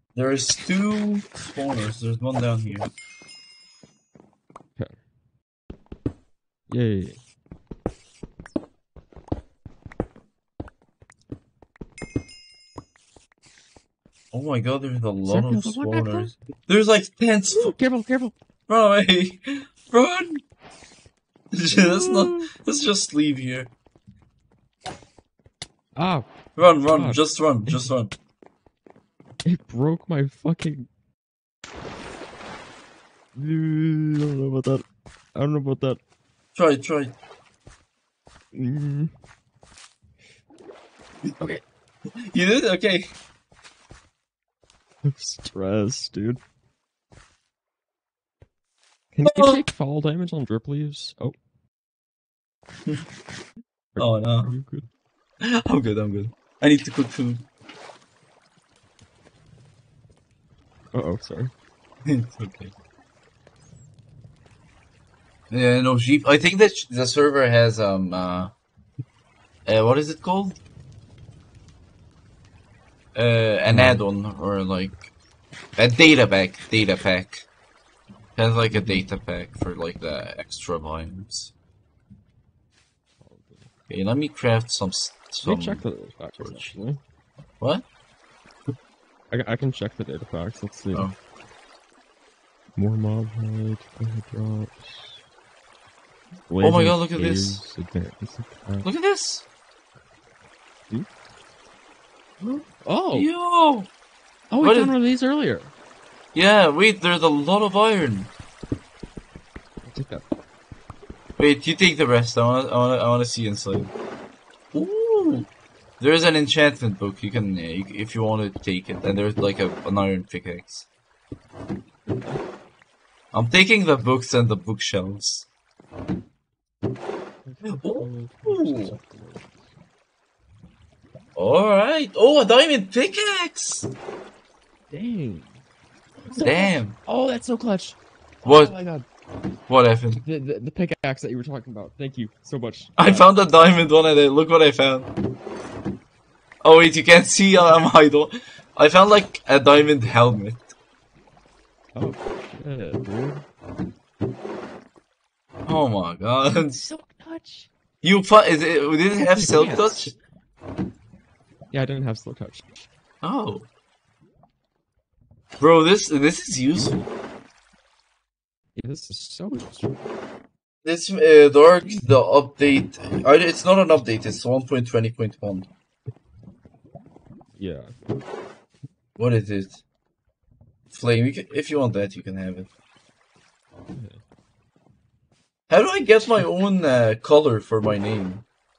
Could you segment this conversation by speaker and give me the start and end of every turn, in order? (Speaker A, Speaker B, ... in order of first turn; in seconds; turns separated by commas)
Speaker A: 0.1-2.9, Speaker B: 6.7-7.2, Speaker A: 14.3-17.8, Speaker B: 15.2-16.3, Speaker B: 17.5-18.3, Speaker A: 18.7-20.4, Speaker A: 21.5-23.7, Speaker B: 21.7-22.5, Speaker B: 26.0-26.3, Speaker A: 26.6-28.1, Speaker B: 26.8-27.9, Speaker B: 29.4-30.9, Speaker B: 33.4-34.8, Speaker B: 35.4-36.0, Speaker A: 36.5-37.1, Speaker B: 38.5-39.1, Speaker A: 42.2-43.1, Speaker B: 45.0-46.4, Speaker B: 49.1-51.4, Speaker A: 49.2-49.6, Speaker B: 54.0-54.9, Speaker A: 54.0-54.5, Speaker A: 55.4-57.5, Speaker B: 60.9-61.5, Speaker A: 62.1-62.7, Speaker A: 65.5-68.5, Speaker A: 69.7-70.6, Speaker A: 73.2-75.1, Speaker B: 73.7-74.0, Speaker A: 75.8-77.5, Speaker A: 78.4-81.5, Speaker B: 78.8-79.0, Speaker B: 83.2-83.7, Speaker A: 83.9-85.9, Speaker B: 85.4-87.0, Speaker A: 86.4-86.7, Speaker A: 87.6-87.9, Speaker B: 89.3-91.1, Speaker B: 92.8-95.2, Speaker B: 96.5-98.9, Speaker A: 96.6-97.6, Speaker A: 98.8-99.5, Speaker B: 102.4-103.3, Speaker A: 103.1-103.9, Speaker B: 104.5-105.7, Speaker A: 104.6-105.0, Speaker A: 106.3-108.3, Speaker B: 109.8-110.2, Speaker A: 111.4-113.9, Speaker A: 114.7-115.5, Speaker A: 116.0-120.9, Speaker B: 122.1-122.4, Speaker A: 123.3-125.5, Speaker B: 127.5-129.7, Speaker A: 127.7-129.0, Speaker A: 131.4-133.9, Speaker B: 134.9-135.6, Speaker B: 136.3-139.1, Speaker A: 136.3-137.0, Speaker A: 138.4-138.8, Speaker A: 139.7-140.2, Speaker B: 140.2-143.3, Speaker A: 143.0-145.1, Speaker A: 146.6-150.7, Speaker B: 152.0-153.4, Speaker A: 155.7-156.8, Speaker B: 156.5-157.7, Speaker A: 158.0-160.1, Speaker B: 159.4-160.1, Speaker B: 161.7-162.9, Speaker A: 163.2-163.7, Speaker A: 165.6-167.0, Speaker B: 168.8-170.0, Speaker A: 170.8-175.7, Speaker B: 177.6-177.9, Speaker A: 179.2-179.8, Speaker A: 180.9-182.7, Speaker B: 183.9-184.2, Speaker A: 185.7-188.4, Speaker B: 186.2-186.5